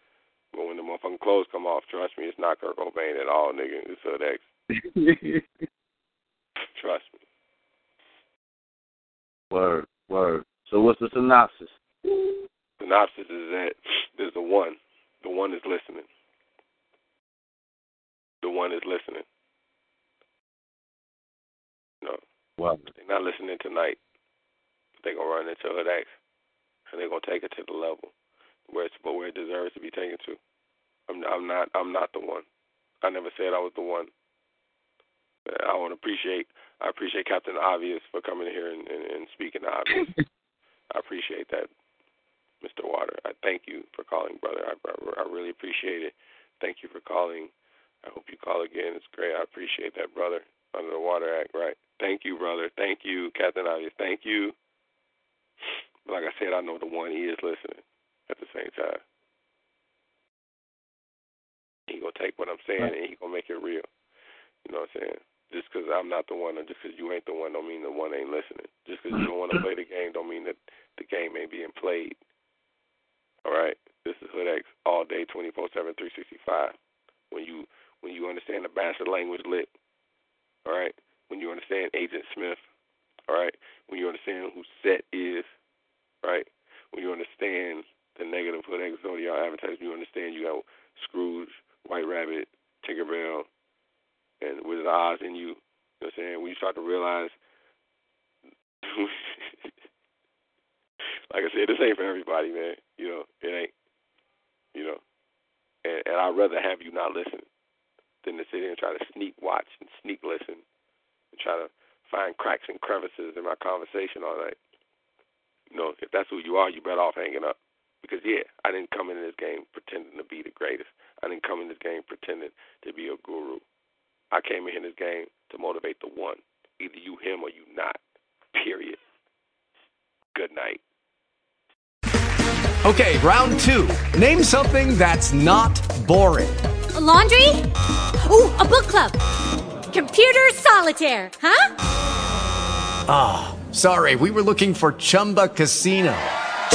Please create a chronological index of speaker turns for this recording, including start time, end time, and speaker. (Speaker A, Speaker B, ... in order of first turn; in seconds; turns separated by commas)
Speaker A: 0.5-4.4, Speaker B: 4.8-5.4, Speaker A: 6.8-7.1, Speaker B: 9.5-11.7, Speaker A: 12.8-16.1, Speaker A: 18.4-19.2, Speaker B: 22.6-22.9, Speaker A: 22.9-24.0, Speaker A: 25.0-26.1, Speaker A: 26.9-28.1, Speaker A: 28.7-30.4, Speaker A: 31.1-32.4, Speaker A: 33.0-34.1, Speaker A: 35.5-40.1, Speaker A: 40.9-41.7, Speaker A: 42.6-47.5, Speaker A: 48.0-54.5, Speaker A: 56.0-59.0, Speaker A: 61.9-63.8, Speaker A: 64.6-72.2, Speaker A: 73.4-76.7, Speaker A: 77.3-79.7, Speaker A: 80.7-82.6, Speaker A: 83.3-85.5, Speaker A: 86.2-93.5, Speaker A: 94.4-97.3, Speaker A: 98.8-99.5, Speaker A: 101.3-103.7, Speaker A: 104.7-105.0, Speaker A: 105.8-107.4, Speaker A: 108.2-110.6, Speaker A: 111.3-114.5, Speaker A: 115.7-123.6, Speaker A: 124.3-128.0, Speaker A: 128.5-129.0, Speaker A: 130.3-130.8, Speaker C: 132.8-136.6, Speaker D: 136.9-137.7, Speaker D: 138.2-139.2, Speaker D: 139.9-141.7, Speaker C: 143.1-146.3